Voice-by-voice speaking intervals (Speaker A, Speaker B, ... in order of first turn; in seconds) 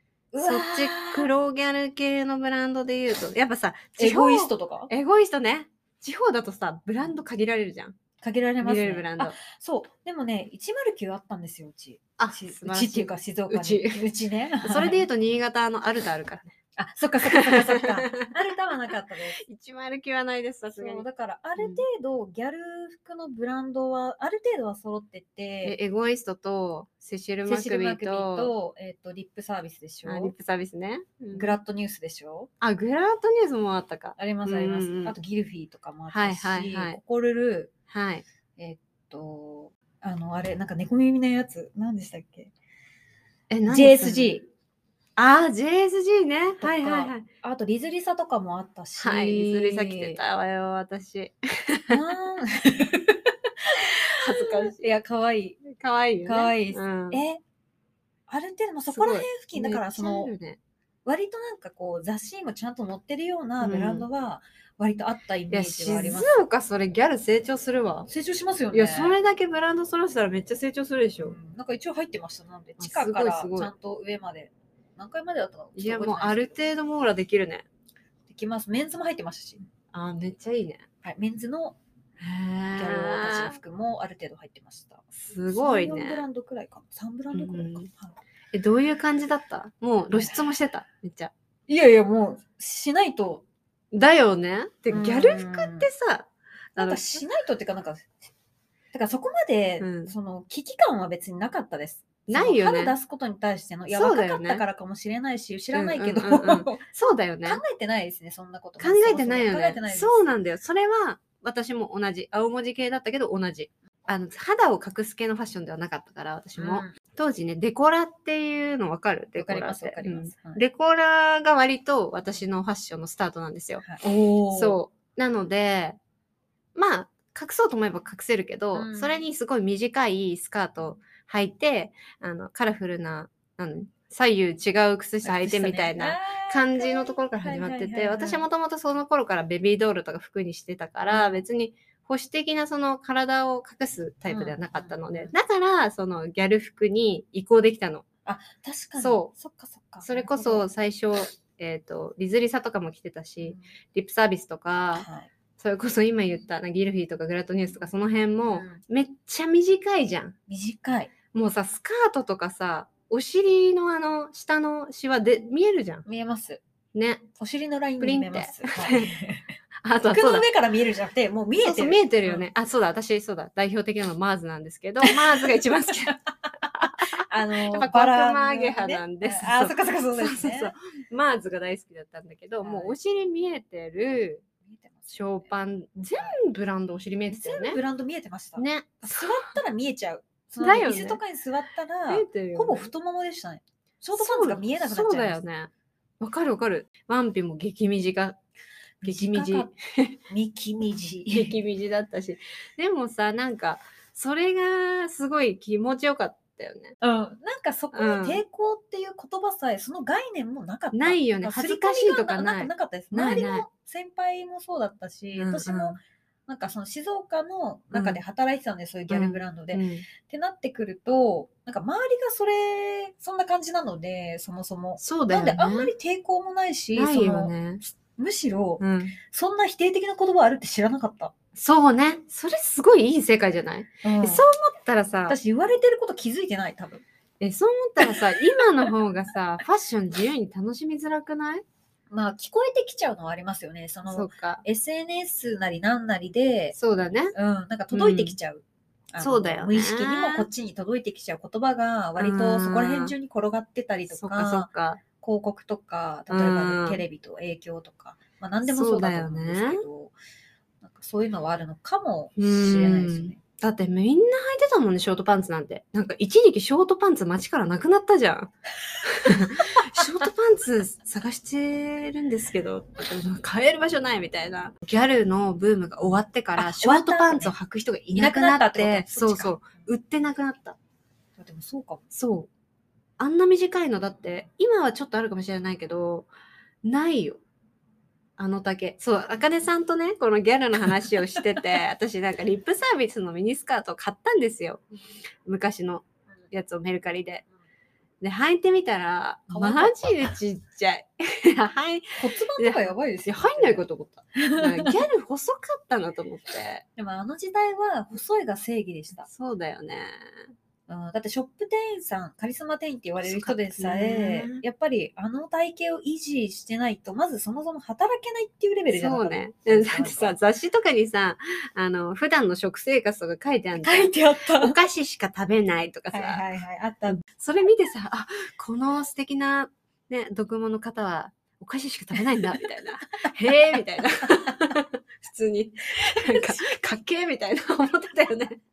Speaker A: 0.3-1.3, 4.0-4.9, 8.2-15.1, 16.8-19.4, 20.8-25.8, 27.5-30.3, 31.3-32.5, 34.2-37.7, 38.6-42.5, 43.7-44.5, 46.6-50.2, 51.9-55.6, 56.3-57.4, 58.3-60.3, 61.0-66.4, 68.1-69.1, 71.2-76.5, 78.3-79.6, 81.0-81.8, 82.7-88.1, 90.1-90.4, 91.7-93.5, 94.9-95.9, 96.8-98.2, 98.9-106.8, 107.5-110.3, 116.6-116.9, 119.4-120.6, 123.8-124.8, 128.7-129.2, 135.2-138.4, 141.1-141.4, 144.3-145.3, 148.3-150.7, 155.0-155.3, 158.5-158.8, 160.5-161.1, 166.1-166.6, 167.4-169.5, 170.1-172.5, 175.0-175.6, 177.2-180.7, 182.6-183.0, 184.6-186.4, 187.3-195.4, 199.0-199.7, 200.3-201.6, 207.0-231.3, 234.0-234.4, 235.3-237.0, 238.0-238.9, 242.1-246.8, 247.3-254.7, 255.2-260.1, 260.8-263.4, 276.6-277.6, 278.1-279.6, 281.4-282.0, 299.5-300.1, 302.2-303.9, 304.4-304.9, 307.0-309.3, 310.9-320.4, 323.8-324.8, 326.1-327.2, 336.1-336.7
Speaker B: 0.4-8.0, 8.6-9.4, 12.2-14.0, 14.6-16.6, 17.2-18.4, 19.4-21.1, 21.6-21.8, 25.6-28.5, 30.1-31.6, 32.6-35.2, 36.1-37.0, 37.9-38.2, 43.5-44.4, 45.2-47.3, 49.0-52.0, 54.0-54.8, 55.6-57.2, 58.9-60.6, 63.6-64.1, 65.5-68.1, 68.7-71.4, 72.8-73.7, 75.8-77.7, 79.9-80.9, 82.2-83.6, 85.3-86.2, 87.3-87.9, 88.5-91.3, 93.9-97.2, 99.8-100.1, 102.3-103.0, 103.9-104.6, 105.7-107.6, 108.8-126.0, 126.8-148.1, 149.0-149.3, 150.0-155.1, 155.6-160.4, 161.3-166.1, 166.9-167.3, 168.0-169.1, 169.8-170.5, 171.6-184.4, 185.1-187.8, 188.6-189.6, 190.6-191.2, 192.1-192.9, 194.2-198.4, 199.0-200.2, 201.3-206.9, 207.9-208.4, 210.9-213.7, 215.4-216.0, 217.9-218.2, 219.1-220.1, 225.0-225.9, 226.9-227.8, 228.8-229.2, 231.6-235.4, 237.4-241.6, 244.1-244.6, 246.8-247.3, 247.9-248.4, 249.2-250.5, 252.2-253.1, 254.1-255.0, 256.3-257.0, 258.7-259.8, 262.4-268.5, 269.0-280.8, 282.1-282.5, 283.2-286.3, 286.8-287.4, 288.4-294.8, 295.4-297.4, 298.2-306.9, 309.3-310.4, 313.2-314.6, 318.9-326.4, 327.1-338.6